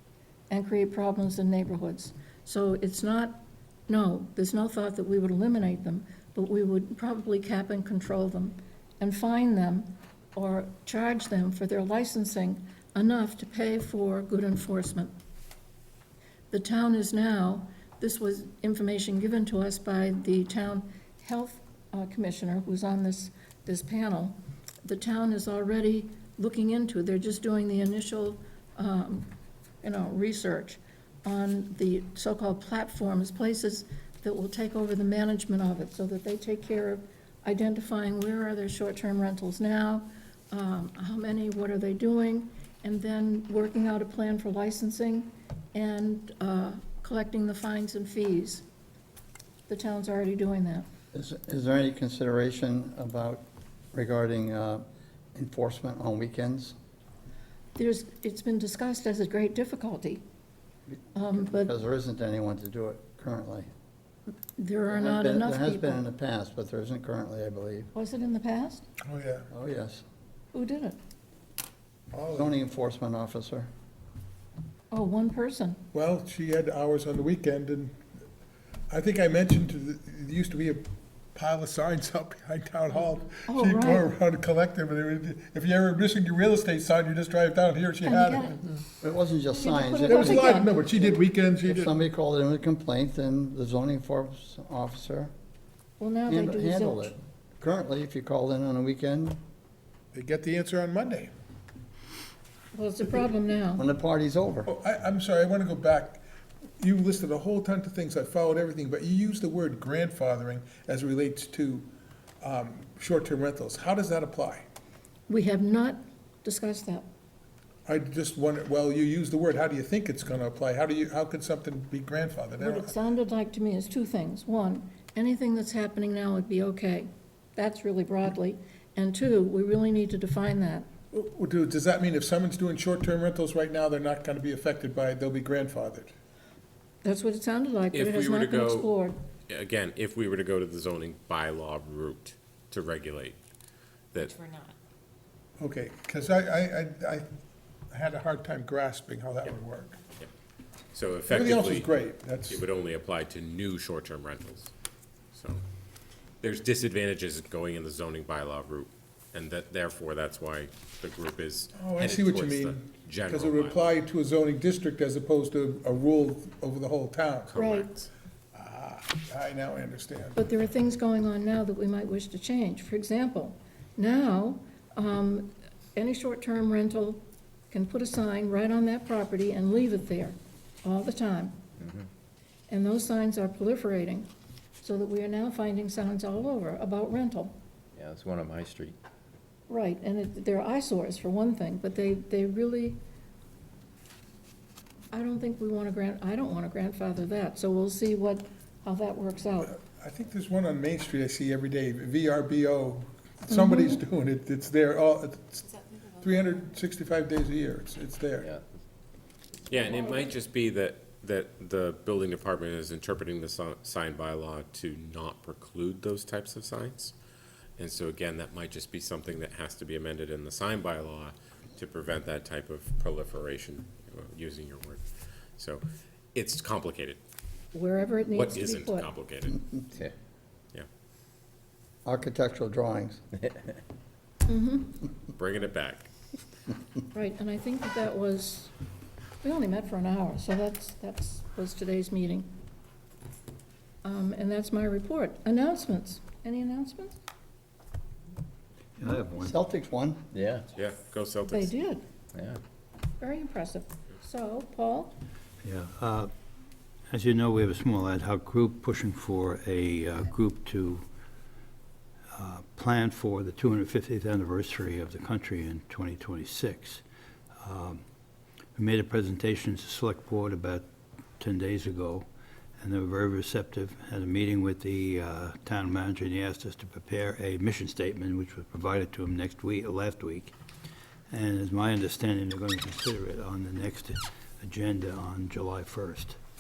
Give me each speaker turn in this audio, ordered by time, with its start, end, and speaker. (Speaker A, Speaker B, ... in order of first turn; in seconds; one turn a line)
Speaker A: 0.5-15.2
Speaker A: 16.5-48.6
Speaker A: 49.7-50.9
Speaker B: 51.1-56.8
Speaker A: 57.8-60.2
Speaker A: 61.1-61.7
Speaker B: 61.4-63.7
Speaker A: 64.6-66.0
Speaker B: 64.9-67.9
Speaker A: 67.9-68.8
Speaker C: 69.1-69.5
Speaker B: 69.5-70.0
Speaker A: 70.5-71.0
Speaker C: 72.1-72.5
Speaker B: 72.3-73.7
Speaker A: 74.9-75.8
Speaker C: 75.9-78.0
Speaker C: 78.9-80.8
Speaker C: 81.3-88.6
Speaker A: 83.5-84.1
Speaker A: 88.0-88.6
Speaker B: 89.0-95.3
Speaker A: 89.5-90.9
Speaker C: 90.1-91.9
Speaker A: 96.0-97.1
Speaker B: 96.3-99.4
Speaker C: 100.1-101.3
Speaker A: 102.7-103.8
Speaker B: 103.8-104.7
Speaker C: 104.7-106.2
Speaker C: 106.8-111.9
Speaker C: 112.4-114.7
Speaker A: 115.3-117.1
Speaker C: 117.9-123.0
Speaker A: 122.6-130.9
Speaker C: 131.1-136.1
Speaker A: 137.0-139.2
Speaker D: 137.9-138.9
Speaker D: 139.5-143.4
Speaker D: 144.1-144.7
Speaker C: 145.6-147.3
Speaker C: 147.9-150.0
Speaker D: 150.9-151.9
Speaker C: 151.3-152.6
Speaker D: 152.5-154.7
Speaker D: 155.3-155.6
Speaker D: 156.4-163.9
Speaker C: 161.8-167.6
Speaker D: 167.5-167.9
Speaker A: 167.6-168.1
Speaker C: 168.5-170.4
Speaker A: 170.4-181.6
Speaker E: 181.8-182.1
Speaker A: 182.7-184.3
Speaker A: 184.8-187.6
Speaker E: 187.9-189.0
Speaker A: 189.7-193.0
Speaker A: 195.1-199.7
Speaker C: 199.6-208.5
Speaker A: 203.5-203.9
Speaker E: 208.4-208.6
Speaker D: 209.7-217.1
Speaker D: 217.8-225.1
Speaker D: 225.6-225.8
Speaker D: 226.3-227.2
Speaker A: 227.7-229.1
Speaker D: 228.3-229.8
Speaker B: 232.1-233.2
Speaker A: 234.5-234.9
Speaker D: 235.3-236.1
Speaker A: 237.1-238.7
Speaker A: 239.4-242.5
Speaker A: 244.0-247.2
Speaker F: 249.0-249.6
Speaker B: 249.4-250.3
Speaker E: 250.3-250.7
Speaker D: 250.7-251.7
Speaker A: 251.5-252.0
Speaker E: 252.3-252.6
Speaker A: 253.2-255.2
Speaker F: 255.6-256.3
Speaker F: 257.1-261.1
Speaker F: 262.3-268.0
Speaker F: 268.8-280.6
Speaker F: 281.3-286.4